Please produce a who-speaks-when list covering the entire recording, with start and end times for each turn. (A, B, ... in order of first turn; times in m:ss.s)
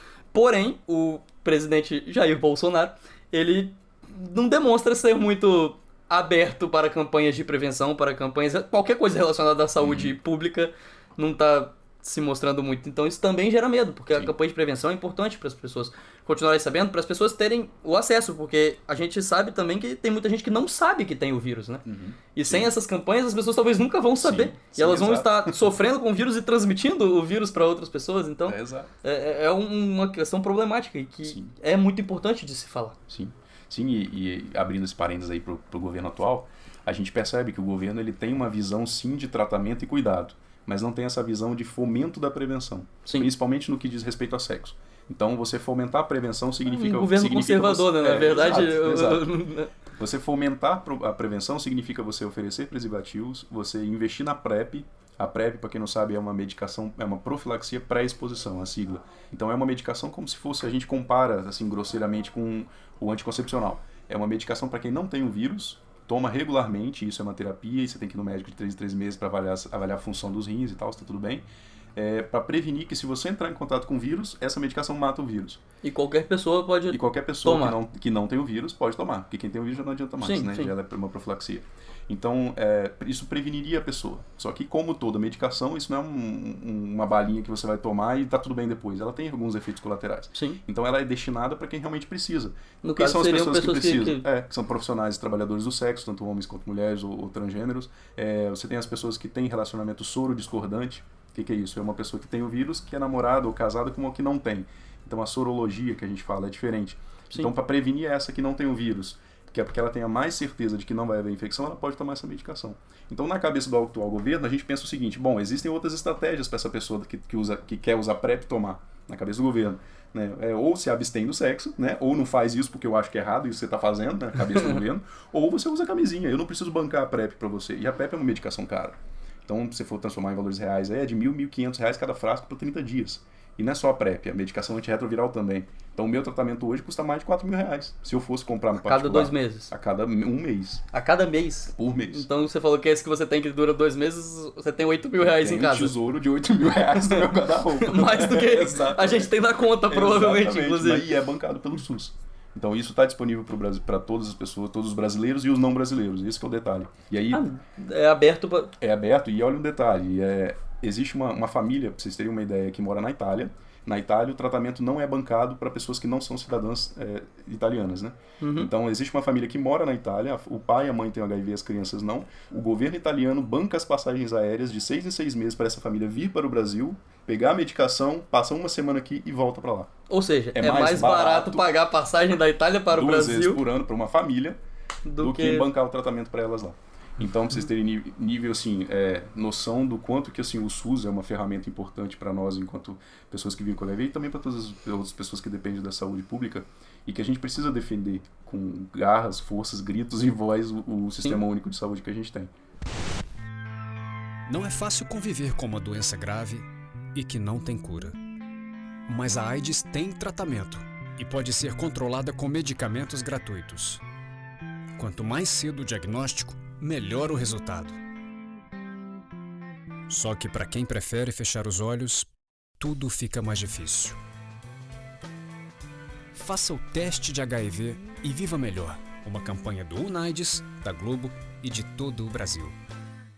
0:00.3-0:33.0 A
0:09.8-0:10.1 B
0:21.8-0:22.7 B
0:24.2-0:25.7 B
0:28.5-0:28.9 B
0:31.2-0:31.5 B
0:33.1-0:49.3 B
0:46.7-0:49.7 A
0:50.0-1:15.6 B
1:15.8-1:17.8 A
1:16.9-2:20.8 B
1:20.2-1:20.7 A
1:30.3-1:30.6 A
1:32.8-1:34.3 A
2:18.8-2:19.7 A
2:20.9-2:25.9 A
2:21.7-2:22.3 B
2:25.2-2:29.3 B
2:27.8-2:31.0 A
2:29.9-2:37.4 B
2:37.3-2:38.7 A
2:38.8-2:59.9 B
2:48.4-2:48.7 A
3:00.1-3:03.6 A
3:00.5-3:01.7 B
3:02.9-3:04.6 B
3:05.1-3:05.7 A
3:05.2-3:22.5 B
3:24.5-3:28.2 C
3:29.1-3:34.0 C
3:35.0-3:38.0 C
3:40.1-3:42.3 C
3:42.8-3:44.2 C
3:46.4-3:52.7 C